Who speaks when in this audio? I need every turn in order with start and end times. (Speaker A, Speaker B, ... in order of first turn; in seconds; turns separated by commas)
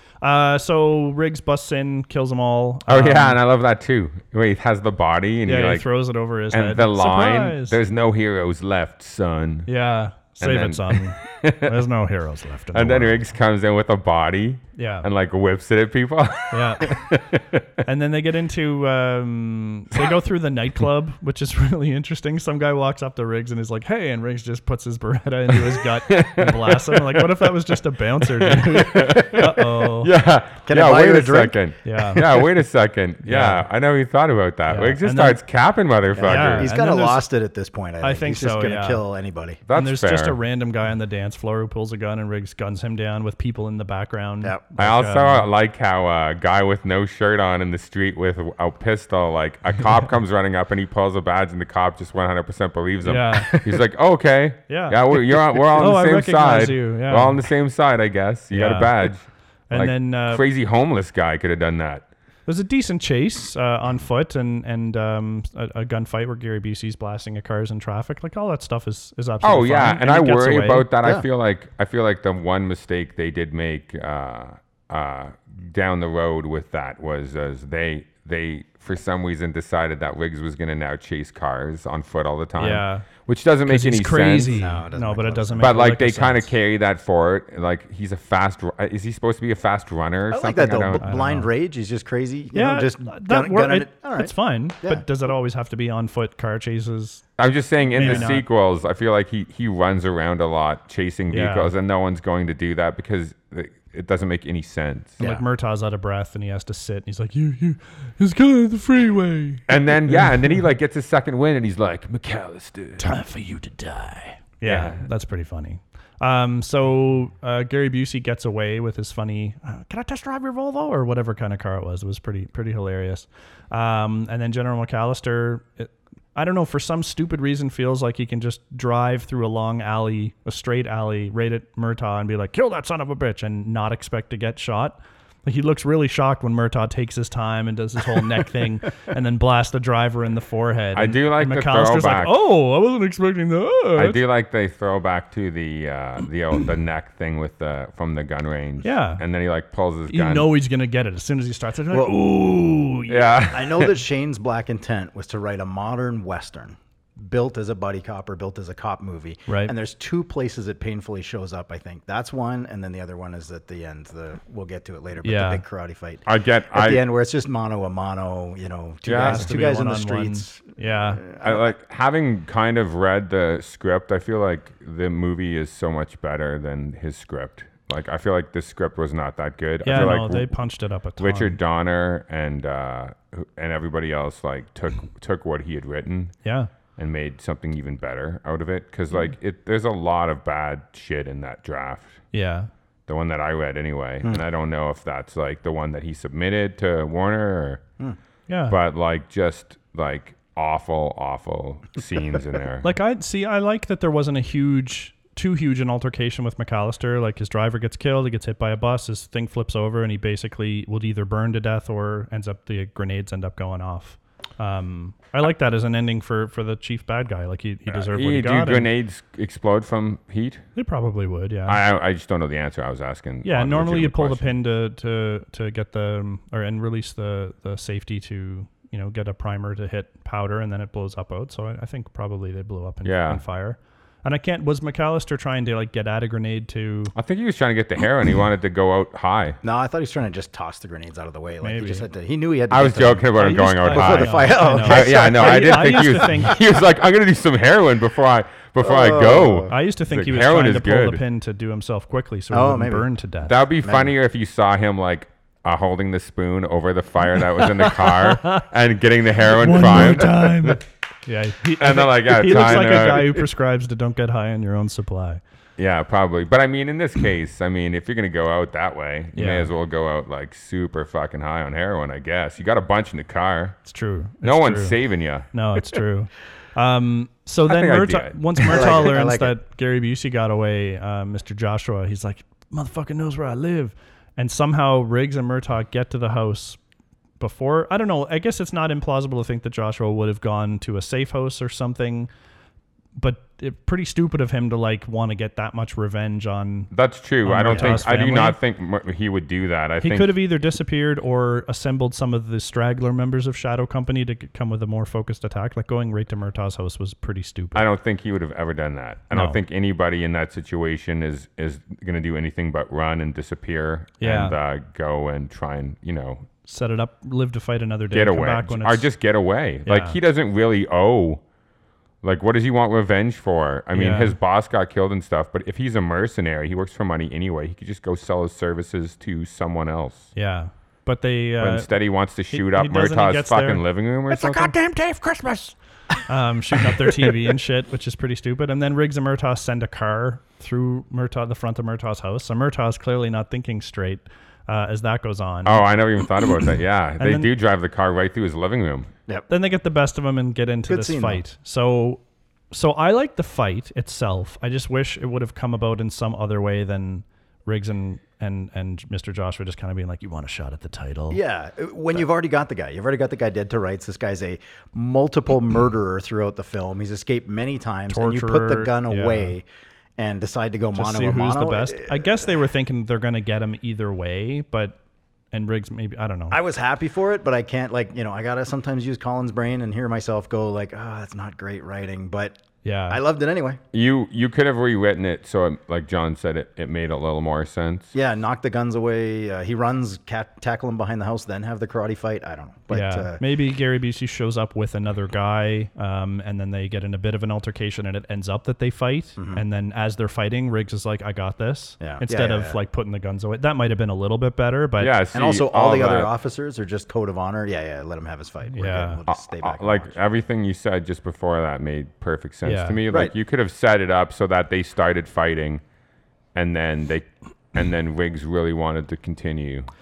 Speaker A: 0.2-3.4, Speaker B: 2.9-5.9, Speaker A: 5.5-7.8, Speaker B: 6.5-9.7, Speaker A: 9.7-13.2, Speaker B: 10.4-11.8, Speaker B: 12.7-17.6, Speaker A: 14.7-15.1, Speaker A: 16.5-17.0, Speaker A: 17.8-30.1, Speaker B: 26.1-27.5, Speaker B: 28.2-36.7, Speaker C: 30.6-31.6, Speaker A: 31.8-32.2, Speaker A: 33.2-33.6, Speaker A: 34.7-35.4, Speaker C: 36.1-39.6, Speaker A: 36.2-37.2, Speaker A: 38.0-39.0, Speaker B: 39.6-40.4, Speaker A: 39.7-45.5, Speaker B: 44.8-62.1, Speaker A: 53.0-53.6, Speaker C: 53.5-53.8, Speaker A: 54.7-55.1, Speaker A: 55.7-57.4, Speaker A: 58.5-59.1, Speaker A: 59.7-60.4, Speaker A: 62.5-70.8, Speaker B: 69.4-84.6, Speaker A: 82.6-83.1, Speaker A: 83.7-86.5, Speaker C: 84.5-85.8, Speaker B: 85.6-91.0, Speaker C: 90.3-95.0, Speaker A: 91.0-91.5, Speaker A: 92.5-97.2, Speaker B: 97.4-105.2, Speaker A: 97.9-98.4, Speaker C: 98.0-98.3, Speaker A: 101.3-101.7, Speaker A: 105.2-110.6, Speaker B: 109.7-113.1, Speaker A: 113.0-144.2, Speaker B: 114.6-115.0, Speaker B: 140.9-142.4, Speaker B: 143.9-150.5, Speaker A: 148.8-149.2, Speaker A: 150.1-153.5, Speaker B: 153.1-153.9, Speaker C: 153.5-171.7, Speaker A: 159.5-159.7, Speaker A: 165.2-165.6, Speaker B: 166.2-167.0, Speaker B: 169.1-169.6, Speaker A: 169.1-171.2, Speaker B: 171.4-180.5, Speaker A: 179.8-181.6, Speaker B: 181.2-186.3, Speaker A: 186.4-186.7, Speaker B: 187.0-192.2, Speaker A: 192.3-192.7, Speaker B: 193.1-197.8, Speaker A: 198.5-198.7, Speaker B: 198.7-202.9, Speaker A: 202.8-218.9, Speaker B: 217.9-220.6, Speaker A: 220.8-221.8, Speaker B: 221.7-224.5, Speaker A: 223.4-237.1, Speaker B: 233.0-233.4, Speaker B: 237.1-239.6, Speaker C: 239.6-246.4, Speaker A: 241.6-242.1, Speaker B: 242.7-251.2, Speaker A: 243.4-246.6, Speaker C: 248.8-249.7, Speaker A: 249.7-253.5, Speaker C: 252.5-253.1, Speaker B: 253.4-260.8, Speaker C: 253.8-254.1, Speaker A: 257.6-258.6, Speaker A: 259.5-265.4, Speaker B: 261.8-263.4, Speaker B: 265.8-273.8, Speaker A: 269.3-269.7, Speaker A: 273.9-274.9, Speaker B: 274.4-275.5, Speaker A: 275.5-286.8, Speaker B: 277.7-279.1, Speaker C: 278.7-279.5, Speaker A: 287.4-292.3, Speaker A: 293.1-296.9, Speaker B: 296.9-300.4, Speaker A: 297.4-298.6, Speaker C: 297.7-298.0, Speaker A: 300.0-307.9, Speaker B: 307.7-316.4, Speaker A: 309.3-309.6, Speaker A: 314.2-314.6, Speaker A: 316.6-319.1, Speaker B: 318.1-321.4, Speaker A: 319.9-320.1, Speaker B: 322.2-330.3, Speaker A: 323.9-324.4, Speaker A: 330.3-331.9, Speaker B: 331.6-334.7, Speaker A: 332.5-335.7, Speaker A: 336.2-345.8, Speaker B: 345.6-349.1, Speaker A: 347.2-347.5, Speaker A: 349.5-361.4, Speaker C: 350.9-351.4, Speaker C: 361.3-369.6, Speaker A: 368.1-369.5, Speaker C: 370.2-372.4, Speaker A: 370.9-375.0, Speaker A: 375.5-376.6, Speaker C: 376.5-383.8, Speaker A: 382.8-383.2, Speaker B: 383.9-388.1, Speaker C: 388.1-393.4, Speaker A: 392.9-405.1, Speaker C: 399.4-399.6, Speaker C: 402.0-402.8, Speaker B: 405.0-406.3, Speaker C: 405.3-410.1, Speaker A: 408.7-409.2, Speaker B: 409.3-415.8, Speaker A: 412.6-413.0, Speaker B: 416.5-419.9